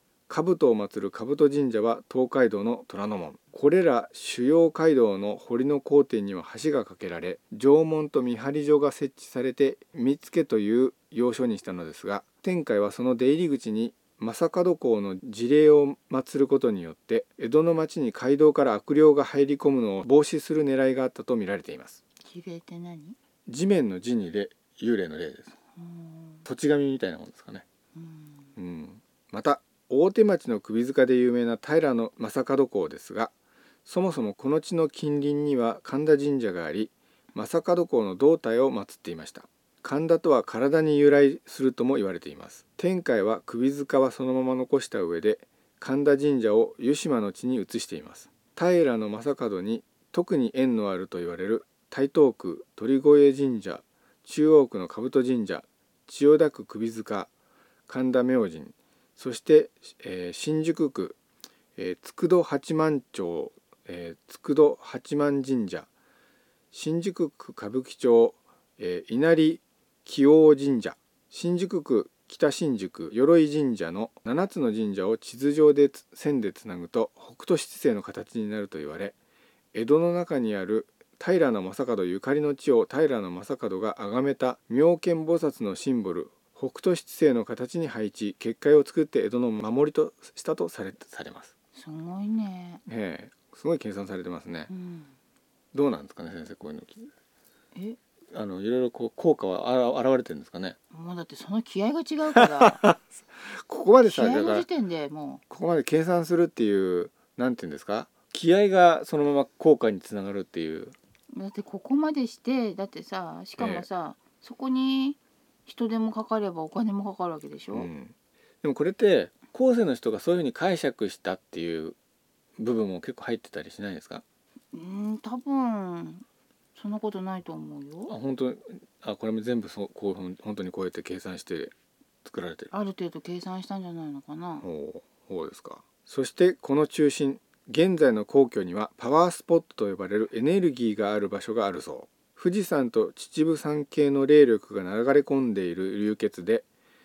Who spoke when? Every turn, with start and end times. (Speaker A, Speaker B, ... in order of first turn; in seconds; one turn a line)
Speaker A: 0.3-22.0
Speaker B: 22.2-23.2
Speaker A: 23.5-25.5
Speaker B: 25.8-26.4
Speaker A: 26.4-27.6
Speaker B: 27.9-28.5
Speaker A: 28.6-33.3
Speaker A: 33.9-57.3
Speaker A: 57.9-61.2
Speaker A: 61.8-65.9
Speaker A: 66.7-79.2
Speaker A: 79.7-91.5
Speaker B: 91.8-92.8
Speaker A: 92.9-94.7
Speaker B: 94.7-95.1
Speaker A: 95.7-97.1
Speaker A: 98.3-100.8
Speaker B: 100.9-102.8
Speaker A: 102.3-104.7
Speaker B: 104.0-105.4
Speaker A: 105.5-111.0
Speaker B: 111.3-117.9
Speaker A: 113.6-113.9
Speaker A: 117.7-122.0
Speaker A: 122.6-124.2
Speaker B: 124.7-126.2
Speaker B: 126.8-128.1
Speaker A: 128.1-131.7
Speaker A: 132.2-132.7
Speaker B: 132.7-134.7
Speaker A: 134.6-146.7